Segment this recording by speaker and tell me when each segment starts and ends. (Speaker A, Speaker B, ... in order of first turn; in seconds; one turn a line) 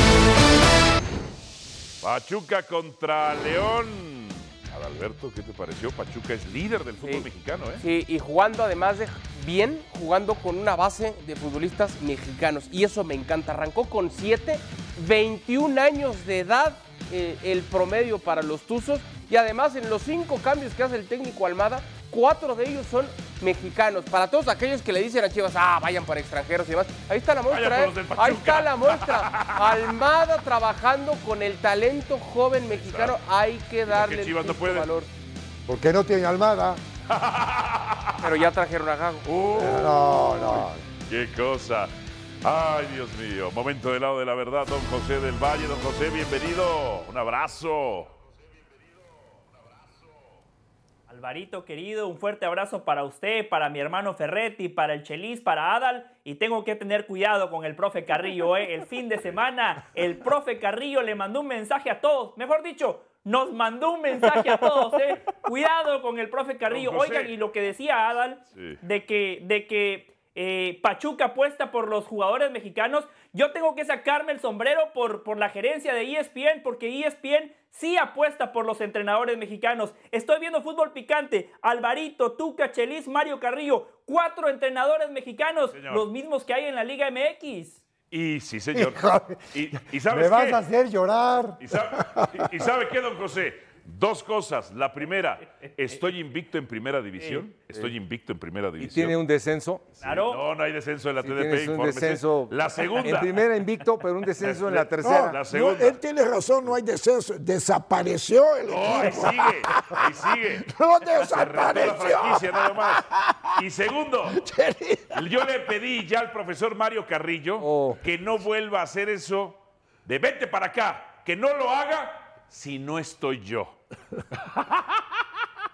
Speaker A: 2.0-7.8
Speaker B: 7.8-35.1
Speaker A: 27.5-29.9
Speaker A: 32.7-33.1
Speaker A: 33.9-34.9
Speaker C: 35.6-36.8
Speaker A: 37.1-38.2
Speaker B: 38.2-39.2
Speaker A: 39.2-41.9
Speaker C: 39.5-40.8
Speaker A: 42.4-48.1
Speaker D: 51.1-87.8
Speaker A: 66.7-67.3
Speaker A: 68.5-68.8
Speaker A: 85.7-86.0
Speaker A: 88.1-90.6
Speaker C: 88.7-92.3
Speaker A: 91.6-99.2
Speaker E: 98.8-99.9
Speaker A: 100.0-103.4
Speaker D: 100.0-100.4
Speaker E: 101.2-105.4
Speaker A: 104.4-106.0
Speaker F: 105.0-113.4
Speaker A: 108.7-114.5
Speaker F: 114.3-115.2
Speaker A: 115.1-123.8
Speaker E: 117.6-118.0